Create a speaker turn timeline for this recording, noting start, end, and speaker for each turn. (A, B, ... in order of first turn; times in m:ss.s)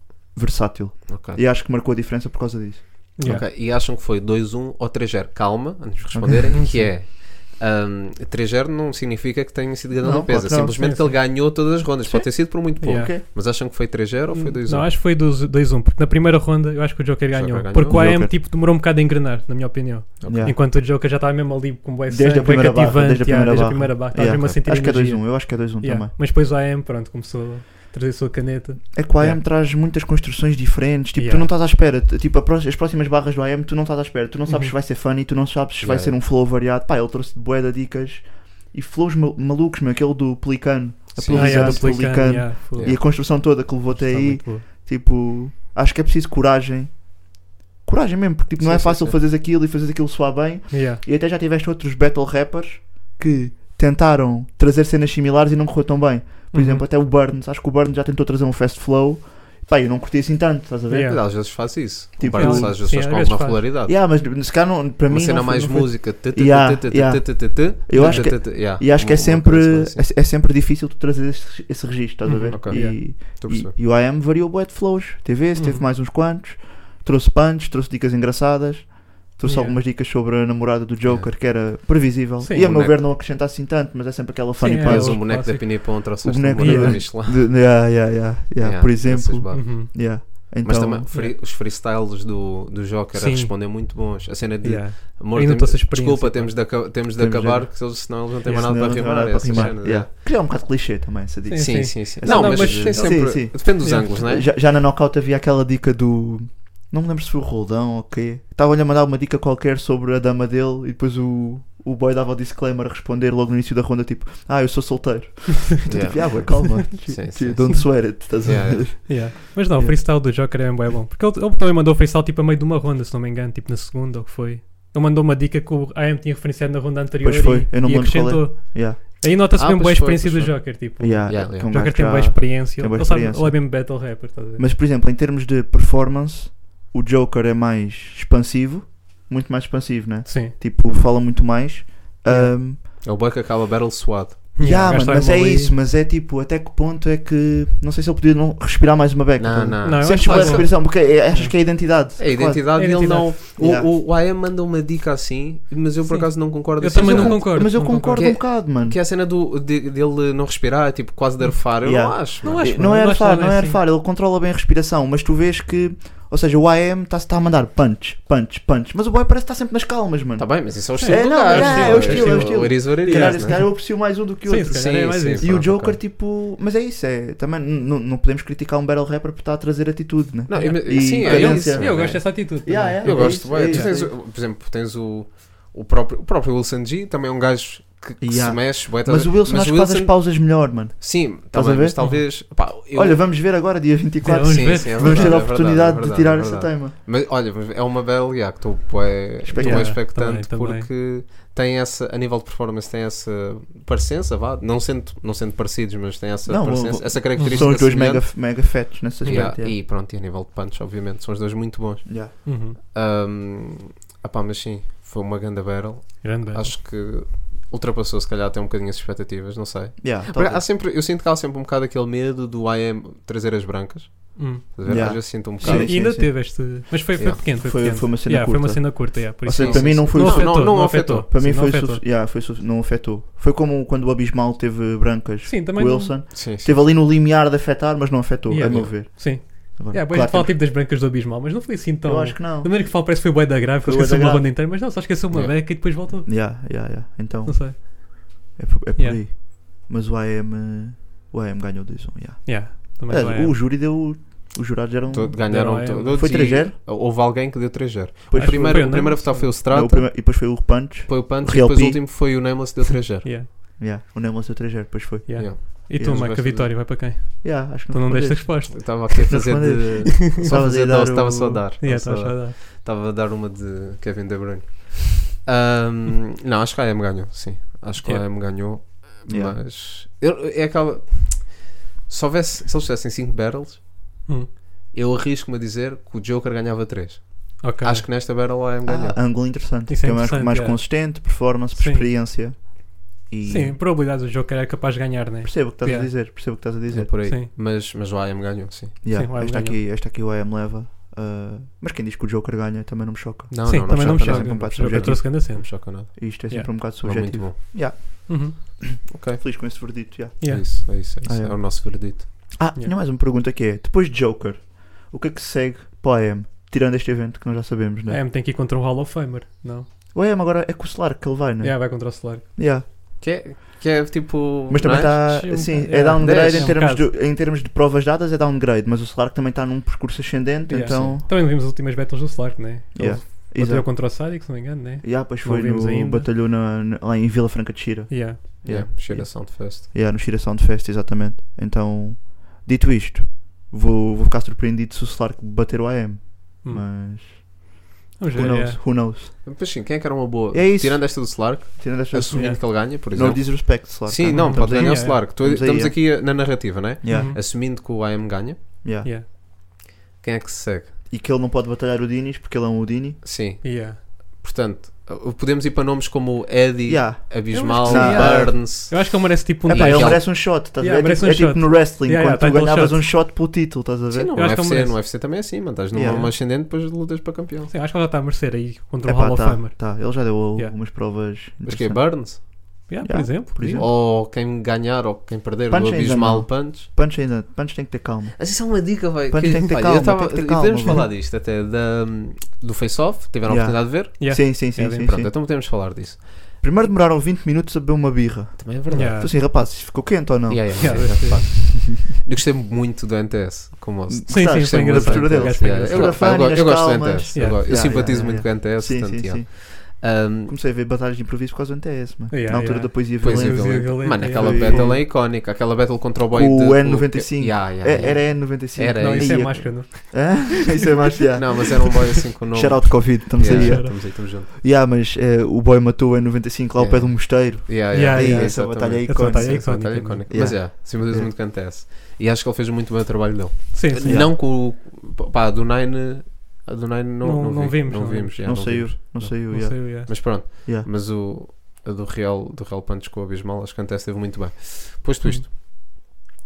0:00.3-0:03.3 A
0:01.1-0:01.4 B
0:03.2-0:03.4 C
0:03.2-0:14.9 B
0:06.1-0:06.6 A
0:06.5-0:06.9 C
0:10.0-0:11.2 A
0:10.7-0:11.2 C
0:12.0-0:13.2 A
0:12.8-0:13.2 C
0:14.3-0:29.4 C
0:17.3-0:18.0 B
0:17.9-0:18.3 A
0:20.2-0:20.5 B
0:20.2-0:20.6 A
0:22.1-0:26.1 A
0:24.3-0:24.6 B
0:28.9-1:01.4 A
0:31.1-0:31.5 C
0:34.5-0:34.7 C
0:35.8-0:36.2 B
0:41.1-0:42.0 B
0:41.3-0:44.6 C
0:48.6-0:49.2 B
0:50.7-0:51.0 C
0:56.5-0:56.9 C
1:00.9-1:01.2 C
1:01.0-1:04.0 B
1:02.2-1:03.1 A
1:02.3-1:03.6 C
1:03.8-1:31.1 A
1:05.1-1:10.1 B
1:07.9-1:08.3 C
1:12.2-1:13.0 C
1:12.5-1:13.7 B
1:15.5-1:15.8 C
1:19.4-1:19.8 C
1:21.0-1:21.3 B
1:22.4-1:22.7 C
1:22.6-1:23.0 B
1:24.6-1:26.0 C
1:24.8-1:28.0 B
1:26.6-1:27.0 C
1:28.6-1:30.1 B
1:29.5-1:30.4 C
1:30.6-1:40.1 B
1:31.1-1:31.4 C
1:33.1-1:36.6 C
1:37.1-2:00.5 A
1:38.4-1:39.8 C
1:41.5-1:44.1 C
1:41.6-1:44.5 B
1:55.8-1:59.0 B
1:59.0-2:14.6 C
2:07.2-2:09.0 A
2:09.5-2:12.0 B
2:11.0-2:22.8 A
2:20.2-2:20.5 C
2:22.2-2:22.6 C
2:22.8-2:24.5 B
2:24.5-2:25.8 C
2:24.6-2:33.0 A
2:29.4-2:30.8 B
2:29.8-2:31.5 C
2:32.2-2:42.8 B
2:32.7-2:33.4 C
2:33.6-2:33.9 A
2:36.0-2:38.2 C
2:36.9-2:39.0 A
2:41.8-3:04.1 A
2:42.4-2:43.8 C
2:50.4-2:53.6 B
2:51.0-2:55.6 C
2:54.7-2:56.0 B
3:00.5-3:13.4 B
3:00.5-3:04.0 C
3:08.2-3:17.0 A
3:12.0-3:12.2 C
3:14.2-3:15.4 C
3:14.5-3:46.4 B
3:19.4-3:20.0 A
3:19.6-3:20.9 C
3:26.4-3:29.8 A
3:27.4-3:27.7 C
3:29.2-3:29.5 C
3:32.0-3:32.3 A
3:32.4-3:32.8 C
3:36.2-3:36.7 C
3:40.0-3:40.6 A
3:44.4-3:52.0 C
3:44.8-3:46.5 A
3:47.2-3:47.5 B
3:47.5-4:00.6 A
3:49.6-3:51.3 B
3:55.4-3:56.2 C
3:56.3-3:56.8 B
3:58.5-4:06.3 C
3:58.6-3:58.9 B
4:02.0-4:03.3 A
4:03.8-4:04.5 A
4:06.2-4:16.8 A
4:07.4-4:08.4 C
4:09.0-4:09.2 C
4:12.4-4:13.6 C
4:15.1-4:23.3 B
4:15.5-4:16.5 C
4:18.3-4:22.0 A
4:18.3-4:19.5 C
4:23.2-4:23.5 C
4:23.8-4:26.5 A
4:25.2-4:29.5 C
4:25.4-4:26.7 B
4:27.4-4:31.6 A
4:28.7-4:44.1 B
4:31.8-4:32.6 C
4:39.3-4:39.6 A
4:44.9-4:49.2 B
4:47.6-4:48.1 C
4:48.8-4:53.8 A
4:49.9-4:52.1 C
4:53.4-4:56.6 C
4:55.4-4:57.3 A
4:56.9-4:59.0 B
4:57.2-4:57.5 C
4:59.0-5:18.2 A
4:59.1-4:59.8 C
5:03.5-5:06.4 B
5:03.6-5:06.7 C
5:07.0-5:07.6 B
5:08.3-5:08.8 C
5:09.1-5:12.5 B
5:10.4-5:10.6 C
5:18.1-5:19.9 C
5:20.1-5:22.8 A
5:21.6-5:22.4 C
5:23.2-5:25.5 B
5:24.7-5:31.2 A
5:25.3-5:27.1 C
5:26.2-5:26.8 B
5:30.7-5:36.3 C
5:30.8-5:31.2 B
5:32.9-5:34.4 A
5:35.0-5:49.4 A
5:38.1-5:38.5 C
5:38.6-5:39.8 B
5:48.2-5:48.8 C
5:49.4-5:58.8 B
5:50.5-5:57.4 A
5:52.3-5:52.6 C
5:54.3-5:55.2 C
5:57.1-5:57.4 C
5:58.8-5:59.1 A
6:00.2-6:01.0 B
6:01.1-6:03.2 A
6:03.2-6:10.2 B
6:03.6-6:04.0 C
6:06.8-6:09.0 A
6:07.5-6:13.1 C
6:09.6-6:14.3 A
6:14.1-6:17.7 B
6:14.3-6:15.0 C
6:15.9-6:16.3 A
6:17.7-6:20.8 C
6:19.0-6:23.9 A
6:21.6-6:22.4 B
6:22.9-6:23.9 C
6:23.7-6:26.9 B
6:25.7-6:31.1 A
6:28.4-6:36.3 B
6:33.4-6:35.3 A
6:34.2-6:35.1 C
6:36.6-6:42.0 A
6:38.6-6:39.3 B
6:38.9-6:39.3 C
6:40.5-6:50.5 B
6:40.8-6:41.4 C
6:44.1-6:55.1 A
6:44.3-6:46.5 C
6:47.3-6:47.9 C
6:52.3-6:55.0 C
6:53.2-6:59.6 B
6:56.3-7:11.3 A
6:59.0-7:00.8 C
7:01.4-7:04.5 B
7:03.4-7:03.9 C
7:06.7-7:26.1 B
7:07.9-7:10.5 C
7:13.7-7:14.2 C
7:14.0-7:14.4 A
7:17.2-7:18.6 C
7:18.4-7:20.9 A
7:19.5-7:20.2 C